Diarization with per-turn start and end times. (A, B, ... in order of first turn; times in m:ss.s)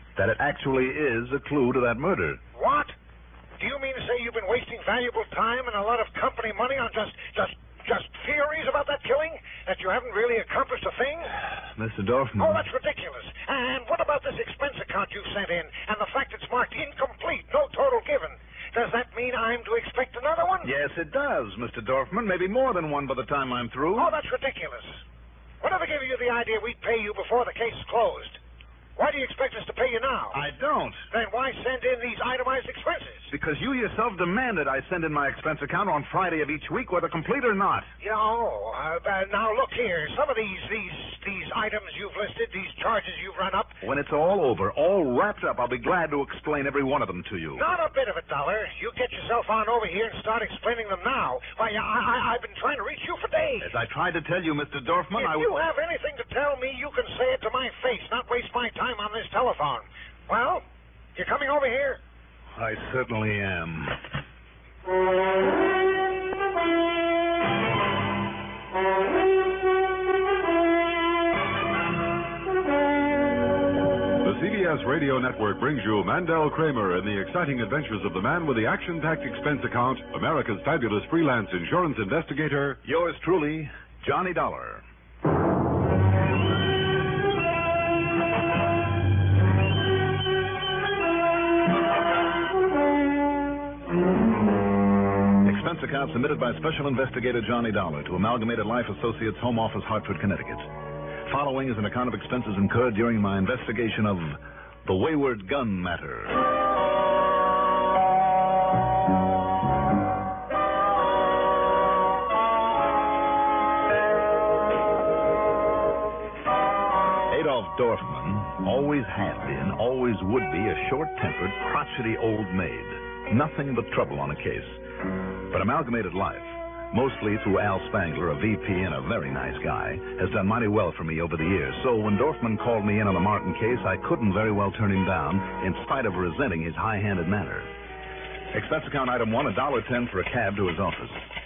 0:00.2-0:02.4 A
0:02.6-0:02.9 B
0:03.6-0:11.3 B
0:11.8-0:12.6 A
0:12.4-0:20.7 B
0:20.6-0:24.1 A
0:23.9-0:25.0 B
0:25.6-0:28.4 B
0:29.0-0:30.4 B
0:30.3-0:31.1 A
0:31.1-0:33.3 B
0:33.3-0:37.9 A
0:38.0-0:43.8 B
0:43.8-0:47.6 A
0:47.6-0:53.7 B
0:53.6-0:55.5 A
0:55.1-1:00.6 B
1:01.2-1:02.0 B
1:02.5-1:04.0 A
1:14.2-1:22.8 C
1:22.8-1:24.8 A
1:35.4-1:40.7 A
1:41.2-1:46.4 A
1:57.3-2:04.8 A
2:05.5-2:17.7 A
2:18.5-2:21.3 A